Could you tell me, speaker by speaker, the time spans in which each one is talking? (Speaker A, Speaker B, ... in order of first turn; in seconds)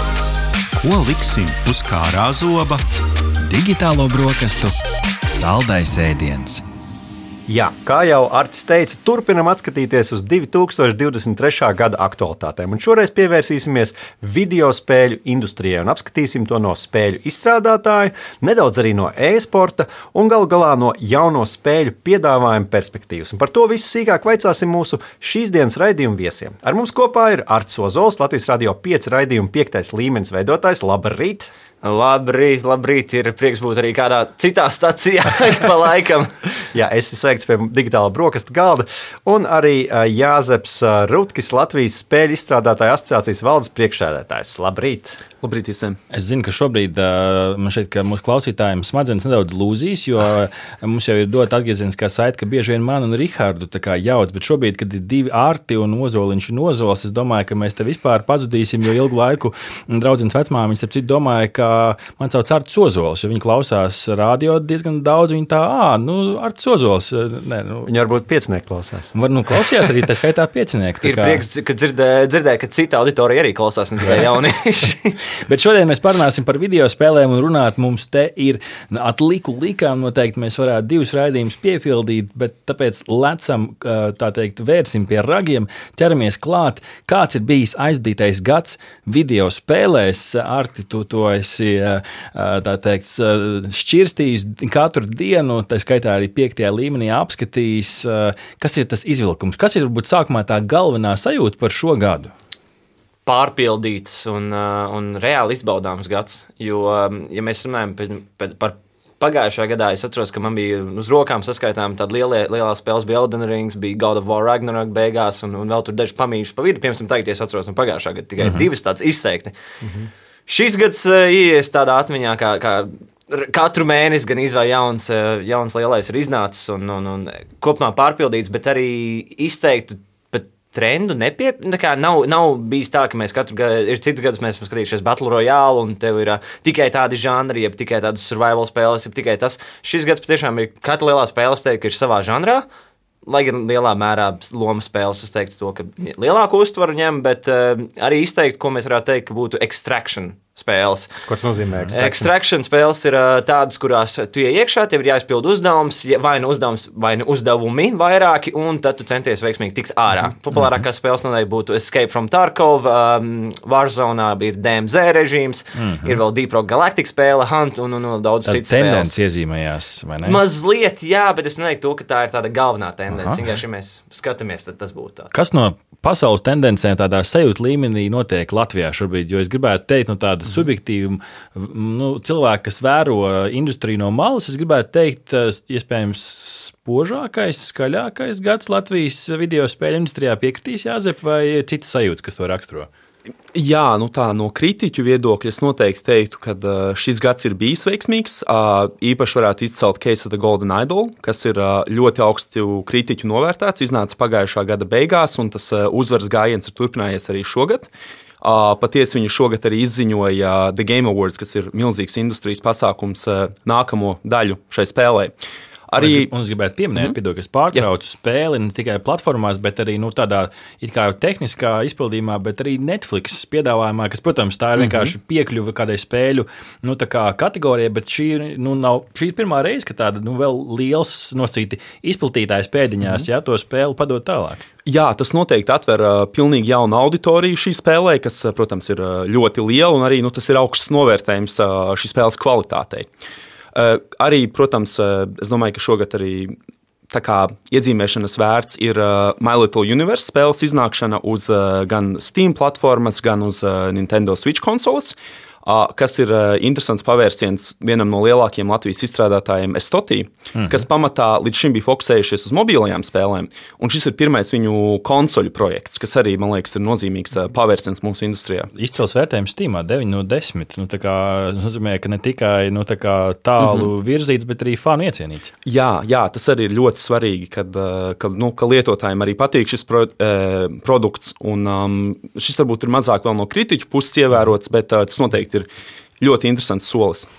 Speaker A: 0.8-2.8
Speaker B: 3.5-6.6, 46.1-67.9, 69.1-71.4, 75.5-102.3, 118.4-118.7, 160.5-160.8, 165.8-166.2, 168.4-170.4, 173.1-173.4, 175.3-192.9, 216.0-234.6, 260.6-260.8, 268.8-275.5
Speaker C: 7.5-31.5, 36.7-45.2, 67.8-69.1, 119.8-120.1, 151.3-152.3
Speaker D: 31.8-36.3, 71.0-75.2, 103.2-119.5, 120.5-142.6, 143.2-151.1, 151.9-169.1, 170.2-175.3
Speaker E: 45.4-46.0, 193.5-215.3, 215.9-216.3, 224.8-225.1, 234.8-243.1, 243.7-246.6, 247.1-268.7, 273.6-273.9, 275.6-285.7, 286.2-287.3